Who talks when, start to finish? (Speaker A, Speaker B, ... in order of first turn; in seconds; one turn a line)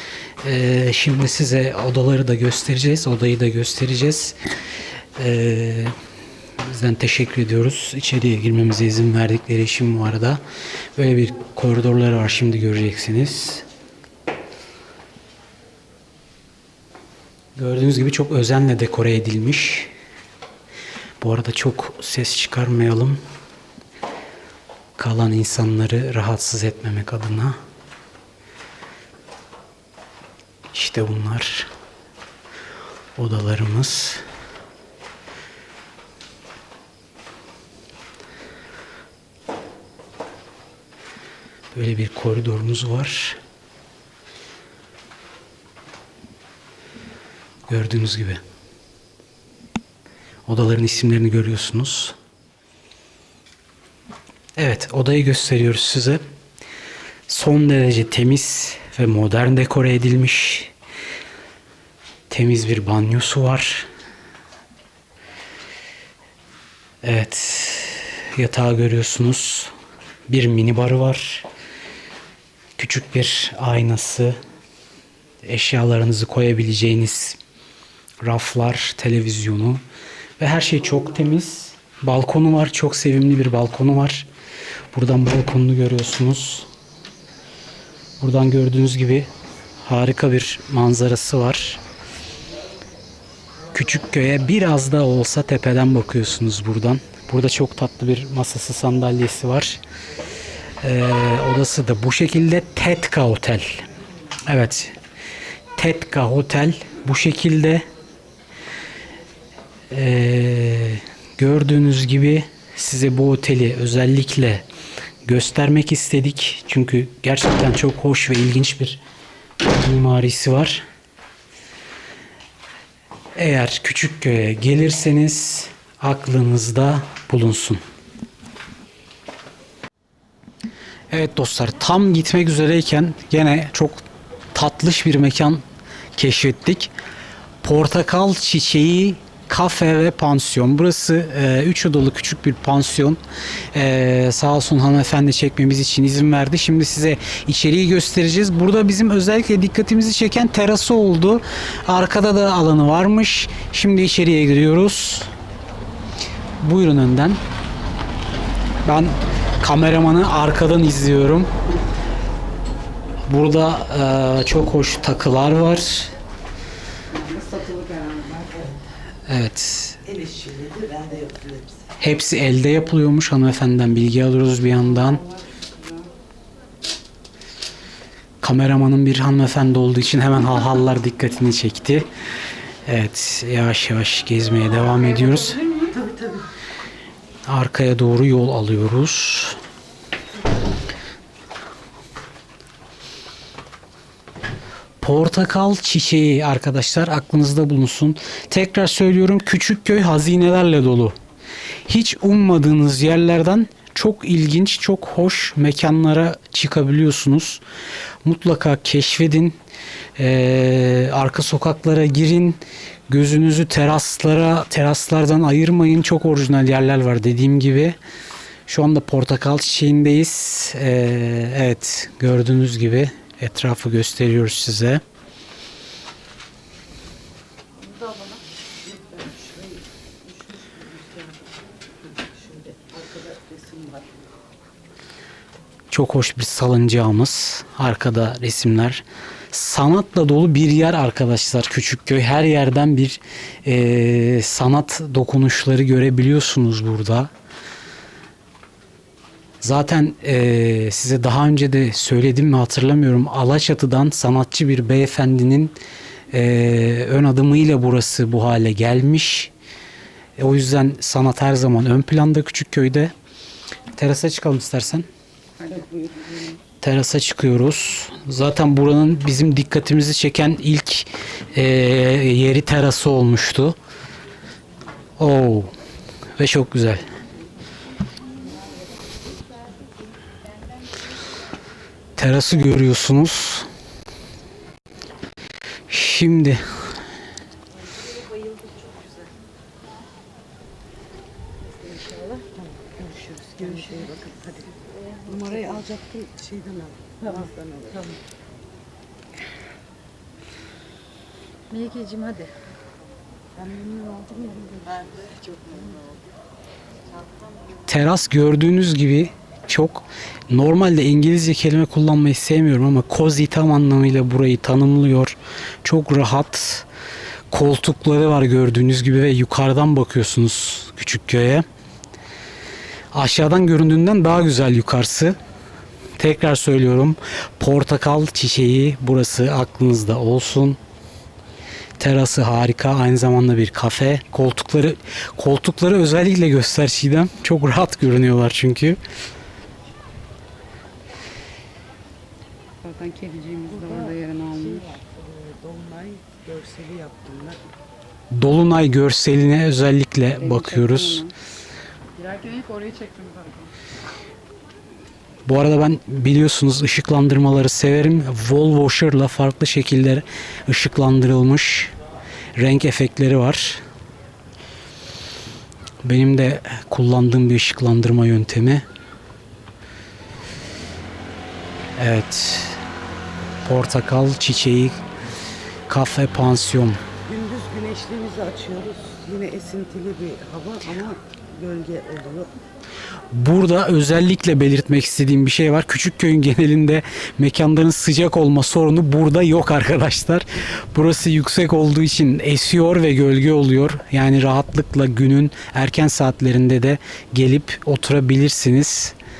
Speaker A: 0.4-4.4
Speaker A: 5.2-5.9
Speaker A: 6.6-10.4
Speaker A: 11.0-13.6
Speaker A: 17.6-19.9
Speaker A: 21.2-23.2
Speaker A: 25.0-27.6
Speaker A: 30.7-31.7
Speaker A: 33.2-34.2
Speaker A: 41.7-43.4
Speaker A: 47.7-48.4
Speaker A: 50.5-52.1
Speaker A: 54.6-56.2
Speaker A: 57.3-60.7
Speaker A: 62.3-63.9
Speaker A: 67.0-69.7
Speaker A: 70.3-71.5
Speaker A: 72.8-74.4
Speaker A: 75.4-77.4
Speaker A: 78.2-79.8
Speaker A: 80.4-84.3
Speaker A: 84.9-86.7
Speaker A: 88.2-89.3
Speaker A: 89.8-91.8
Speaker A: 93.7-99.8
Speaker A: 100.8-103.8
Speaker A: 104.5-105.0
Speaker A: 105.8-107.8
Speaker A: 109.9-114.6
Speaker A: 115.3-119.0
Speaker A: 119.6-120.8
Speaker A: 123.4-127.8
Speaker A: 131.1-134.0
Speaker A: 134.6-135.6
Speaker A: 136.2-136.9
Speaker A: 137.6-143.2
Speaker A: 143.7-155.3
Speaker A: 156.6-157.4
Speaker A: 158.8-161.5
Speaker A: 163.3-166.1
Speaker B: 167.2-168.8
Speaker A: 169.3-170.0
Speaker B: 170.1-171.9
Speaker A: 172.0-175.2
Speaker A: 178.4-182.1
Speaker A: 182.9-185.6
Speaker B: 185.4-186.4
Speaker A: 187.5-189.6
Speaker A: 195.0-201.1
Speaker A: 201.9-207.6
Speaker A: 208.2-209.6
Speaker A: 210.2-218.0
Speaker A: 218.7-225.0
Speaker B: 228.8-231.4
Speaker B: 232.0-234.2
Speaker A: 235.9-247.3
Speaker A: 249.6-255.8
Speaker A: 256.3-259.5
Speaker A: 260.4-263.1
Speaker A: 264.0-265.1
Speaker A: 266.8-273.8
Speaker A: 275.2-275.7
Speaker A: 276.4-277.0
Speaker A: 282.2-283.7
Speaker A: 285.9-286.6
Speaker B: 292.5-294.7
Speaker B: 295.2-298.2
Speaker C: 301.8-302.3
Speaker B: 303.6-305.8
Speaker A: 307.9-316.9
Speaker A: 317.5-321.6
Speaker A: 323.1-325.4
Speaker A: 326.2-330.8
Speaker A: 332.0-339.0
Speaker C: 342.8-344.9
Speaker B: 343.7-347.6
Speaker A: 348.3-351.2
Speaker C: 350.4-351.3
Speaker C: 352.2-353.7
Speaker A: 355.5-361.9
Speaker A: 362.6-363.8
Speaker A: 366.0-368.8
Speaker A: 372.0-372.8
Speaker A: 373.6-375.0
Speaker A: 375.9-377.0
Speaker B: 377.3-382.5
Speaker A: 383.3-399.1